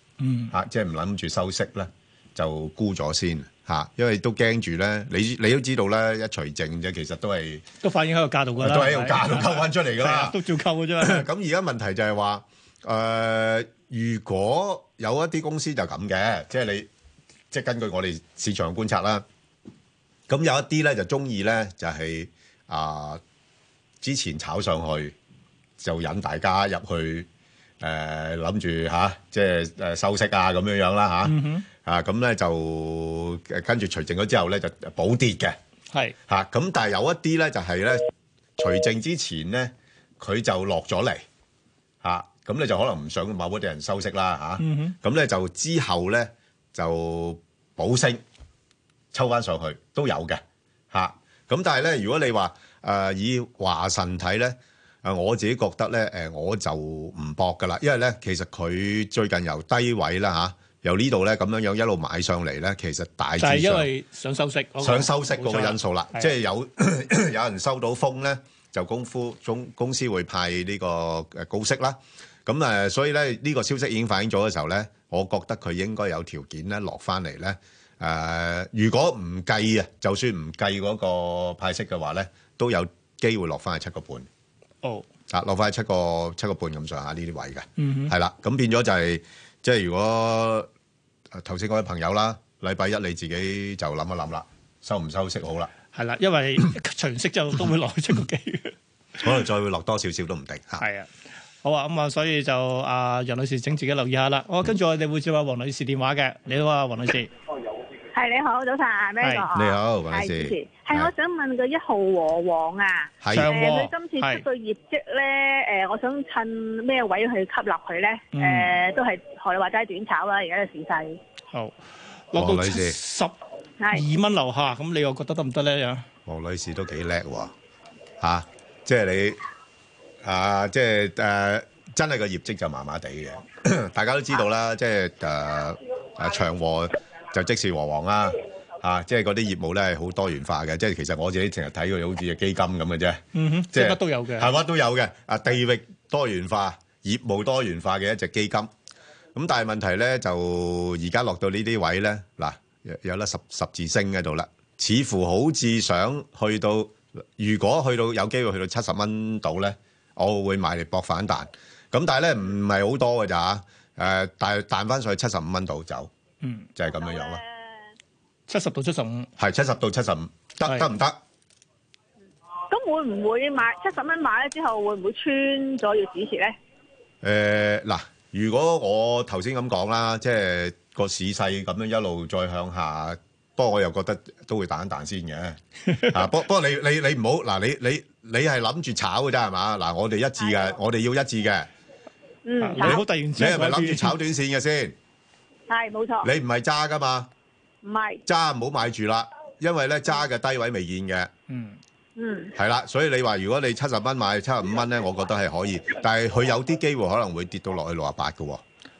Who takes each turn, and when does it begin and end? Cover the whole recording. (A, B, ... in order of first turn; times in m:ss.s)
0:00.2-0:00.5 A
0:00.5-0:07.6 B
0:07.8-0:11.2 A
0:08.6-0:10.4 B
0:11.0-0:16.9 B
0:17.5-0:19.2 B
0:20.3-0:23.2 B
0:24.0-0:25.2 B
0:25.8-0:27.3 B
0:27.8-0:35.6 B
0:31.2-0:31.6 A
0:36.3-0:38.0 B
0:38.6-0:41.2 B
0:42.0-0:48.2 B
0:44.6-0:45.0 A
0:49.1-0:50.4 B
0:50.9-1:03.9 B
1:03.4-1:06.3 A
1:04.8-1:24.3 B
1:25.3-1:30.7 B
1:27.8-1:28.1 A
1:31.3-1:35.7 B
1:35.9-1:38.7 A
1:39.2-1:40.8 B
1:40.8-1:41.1 A
1:41.6-1:47.3 A
1:48.1-2:01.2 C
1:49.2-1:49.4 A
1:49.5-1:51.1 B
1:53.2-1:53.6 B
1:53.3-1:54.4 A
1:58.3-1:58.8 A
2:02.3-2:03.3 A
2:02.3-2:03.0 B
2:03.9-2:06.0 A
2:06.2-2:07.5 B
2:08.2-2:09.4 B
2:10.2-2:28.7 B
2:23.3-2:24.5 A
2:29.3-2:46.1 B
2:46.4-2:46.7 A
2:46.8-2:47.4 B
2:47.0-2:47.6 C
2:48.5-2:49.3 A
2:49.4-2:51.2 B
2:52.7-2:56.6 C
2:57.2-3:05.6 B
3:05.9-3:06.2 A
3:06.1-3:11.7 B
3:10.4-3:10.8 C
3:12.4-3:13.0 C
3:12.6-3:14.2 A
3:12.8-3:15.0 B
3:15.7-3:16.3 C
3:16.2-3:17.3 B
3:17.8-3:18.2 C
3:18.2-3:21.3 B
3:21.5-3:21.8 A
3:22.2-3:22.5 C
3:22.5-3:28.6 B